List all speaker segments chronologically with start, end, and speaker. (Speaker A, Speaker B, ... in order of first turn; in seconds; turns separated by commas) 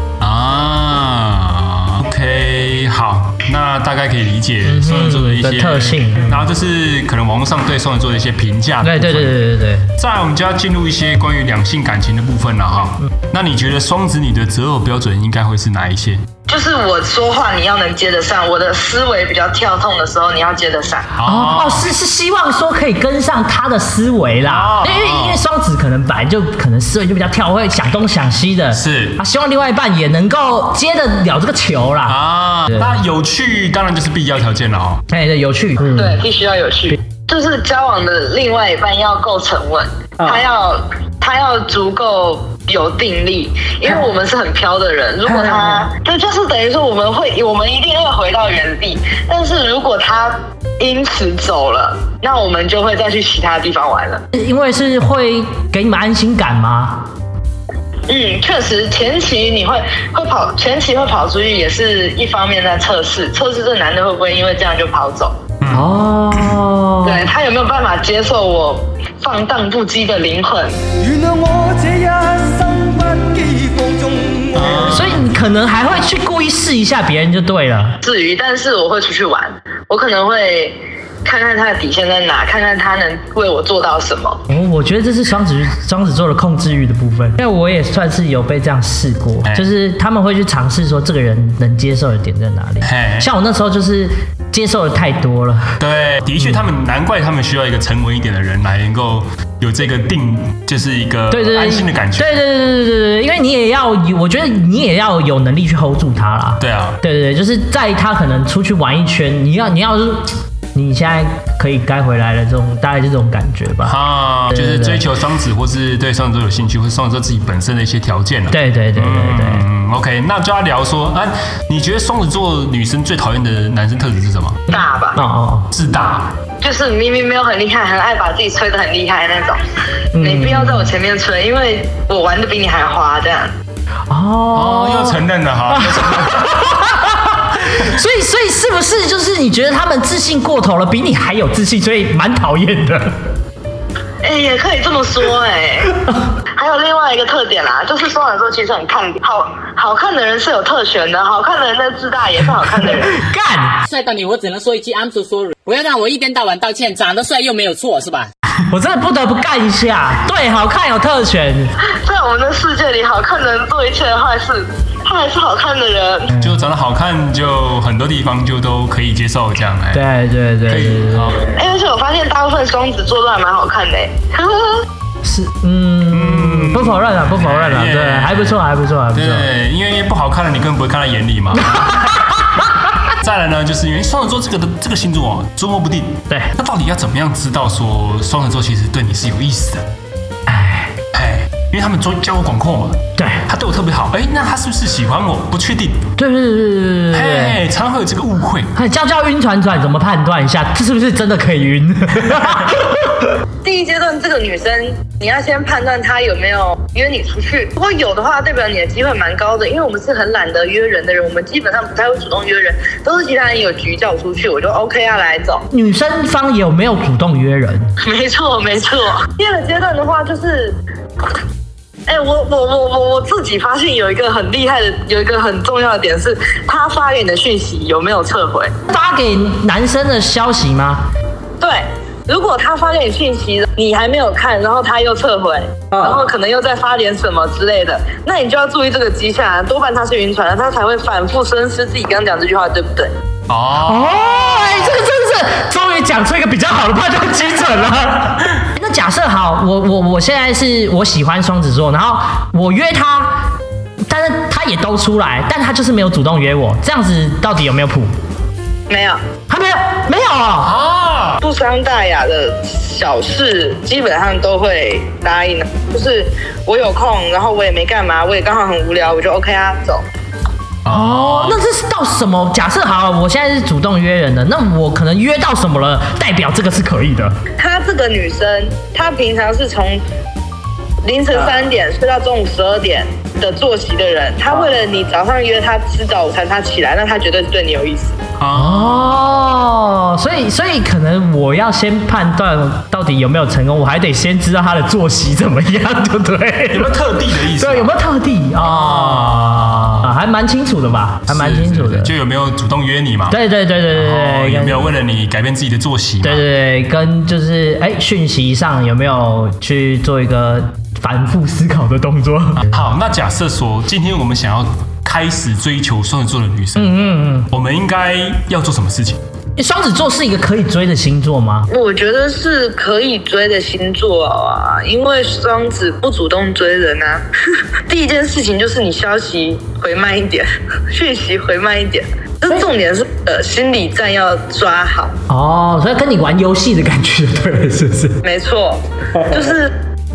Speaker A: 0.2-9.4, Speaker B: 4.7-6.4, Speaker B: 8.8-9.9, Speaker A: 10.0-16.2, Speaker C: 16.5-21.1, Speaker A: 21.2-21.9, Speaker B: 21.3-32.2, Speaker A: 24.4-25.4, Speaker A: 28.7-29.2, Speaker A: 32.1-35.0, Speaker B: 35.1-36.2, Speaker C: 36.0-54.2, Speaker B: 45.3-45.9, Speaker B: 54.3-57.1, Speaker C: 58.1-65.3, Speaker A: 65.6-66.4, Speaker B: 65.7-67.3, Speaker C: 67.0-70.8, Speaker D: 71.0-74.8, Speaker A: 74.5-75.3, Speaker B: 74.8-78.0, Speaker C: 78.0-84.4, Speaker B: 84.5-95.8, Speaker A: 92.8-93.3, Speaker A: 95.8-102.4, Speaker B: 101.3-114.0, Speaker A: 106.6-107.0, Speaker A: 113.8-124.6, Speaker B: 114.5-115.0, Speaker B: 118.5-119.7, Speaker C: 124.7-125.2, Speaker B: 125.2-125.7, Speaker A: 125.7-126.3, Speaker C: 126.6-129.6, Speaker B: 130.2-130.9, Speaker C: 130.2-133.5, Speaker B: 134.1-143.1, Speaker A: 134.5-136.8, Speaker C: 144.2-145.9, Speaker C: 146.6-153.2, Speaker B: 153.1-153.8, Speaker E: 153.8-158.3, Speaker B: 158.7-161.7, Speaker C: 161.9-166.3, Speaker A: 166.4-170.1, Speaker B: 169.9-171.4, Speaker A: 170.7-171.5, Speaker C: 171.5-174.8, Speaker B: 175.2-179.5, Speaker A: 176.1-182.3, Speaker B: 181.7-182.4, Speaker A: 183.2-189.8, Speaker B: 190.5-190.9, Speaker A: 191.1-196.1, Speaker B: 193.2-193.4, Speaker B: 196.2-197.6, Speaker A: 197.1-198.7, Speaker B: 198.8-203.1, Speaker C: 203.6-215.7, Speaker B: 215.7-217.9, Speaker C: 218.0-220.8, Speaker C: 222.1-228.7, Speaker B: 228.9-231.1, Speaker C: 231.6-243.1, Speaker A: 243.5-244.9, Speaker B: 243.8-253.5, Speaker B: 254.1-258.1, Speaker C: 258.9-259.2, Speaker B: 259.5-260.7, Speaker A: 260.6-261.4, Speaker C: 261.4-270.0, Speaker A: 270.9-271.6, Speaker B: 270.9-277.4, Speaker C: 277.6-280.0, Speaker C: 281.0-288.2, Speaker A: 288.4-289.3, Speaker B: 288.6-296.9, Speaker A: 296.7-297.9, Speaker B: 297.6-302.1, Speaker A: 298.6-300.1, Speaker A: 301.3-303.4, Speaker B: 303.3-304.9, Speaker A: 303.9-306.4, Speaker B: 306.2-312.9, Speaker A: 312.6-317.0, Speaker B: 316.8-317.5, Speaker A: 317.5-319.2, Speaker B: 319.6-321.7, Speaker C: 321.7-327.3, Speaker C: 327.9-335.1, Speaker B: 335.3-338.2, Speaker C: 338.2-339.8